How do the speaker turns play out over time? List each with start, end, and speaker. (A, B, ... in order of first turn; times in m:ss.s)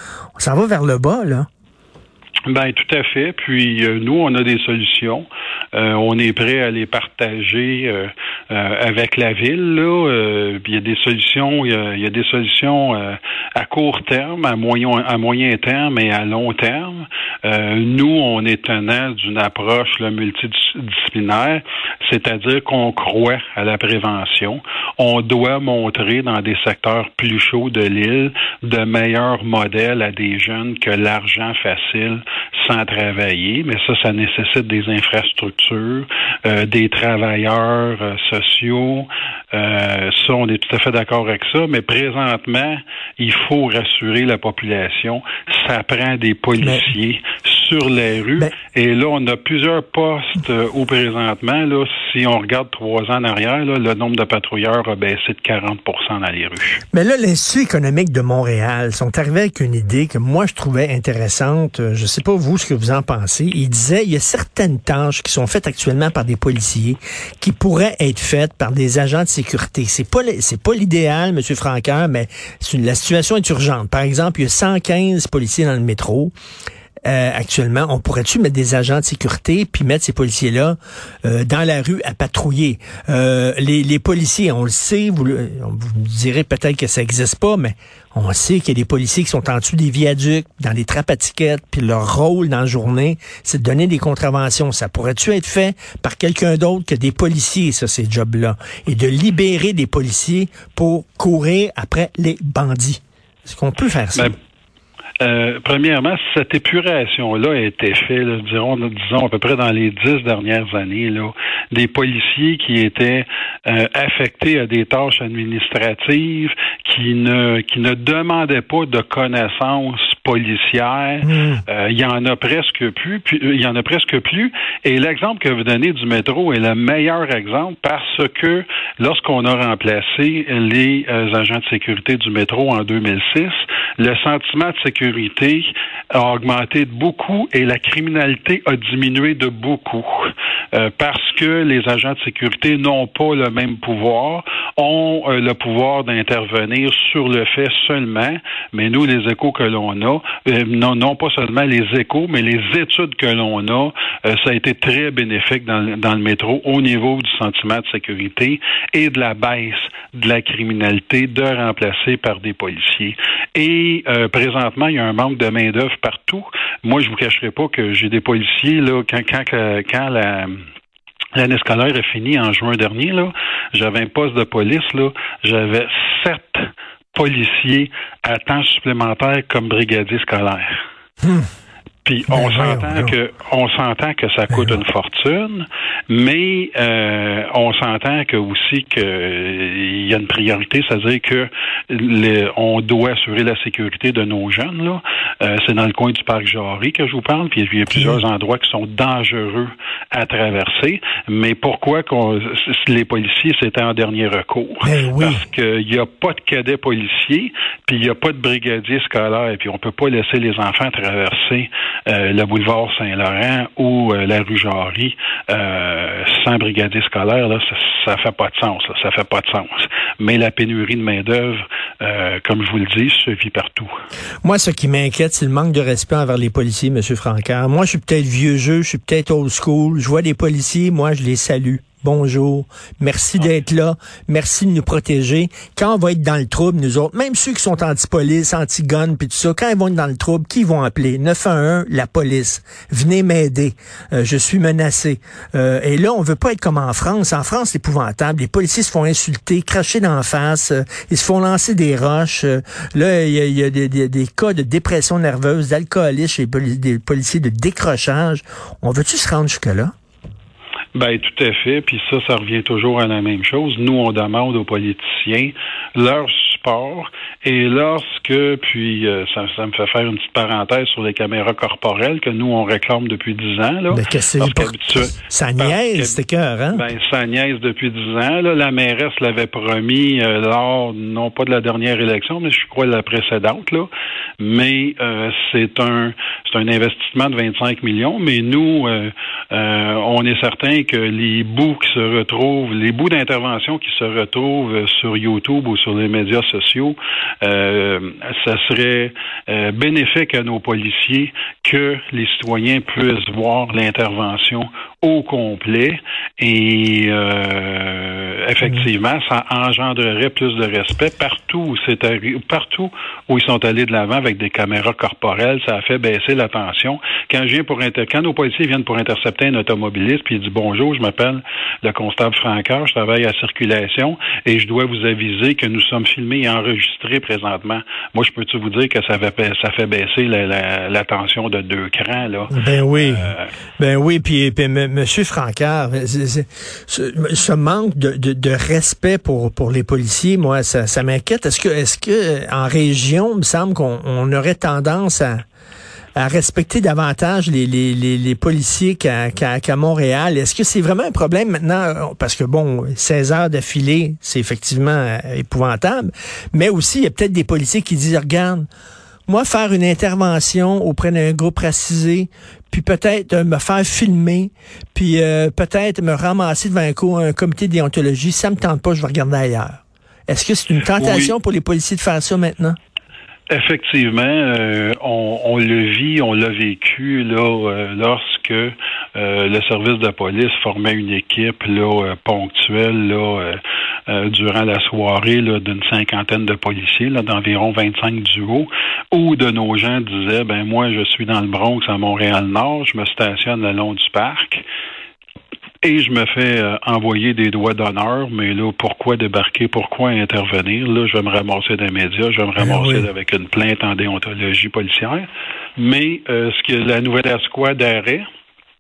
0:00.4-0:01.5 A
0:02.5-0:56.8 B
0:46.6-0:46.9 A
0:56.9-1:16.3 A
1:17.1-1:44.4 A
1:45.2-2:50.6 B
2:01.2-2:01.6 A
2:51.4-3:00.8 B
3:01.2-3:01.5 A
3:02.0-3:43.9 B
3:02.3-3:03.2 A
3:04.5-3:04.8 A
3:17.9-3:18.2 A
3:24.8-3:25.4 A
3:44.4-4:19.9 A
4:21.0-4:36.2 B
4:33.9-4:36.9 A
4:36.7-5:33.5 B
5:32.5-5:45.4 A
5:46.2-5:58.7 A
5:59.3-6:12.8 A
6:11.0-6:11.4 B
6:13.5-6:34.6 B
6:35.8-6:48.2 B
6:42.6-6:43.1 A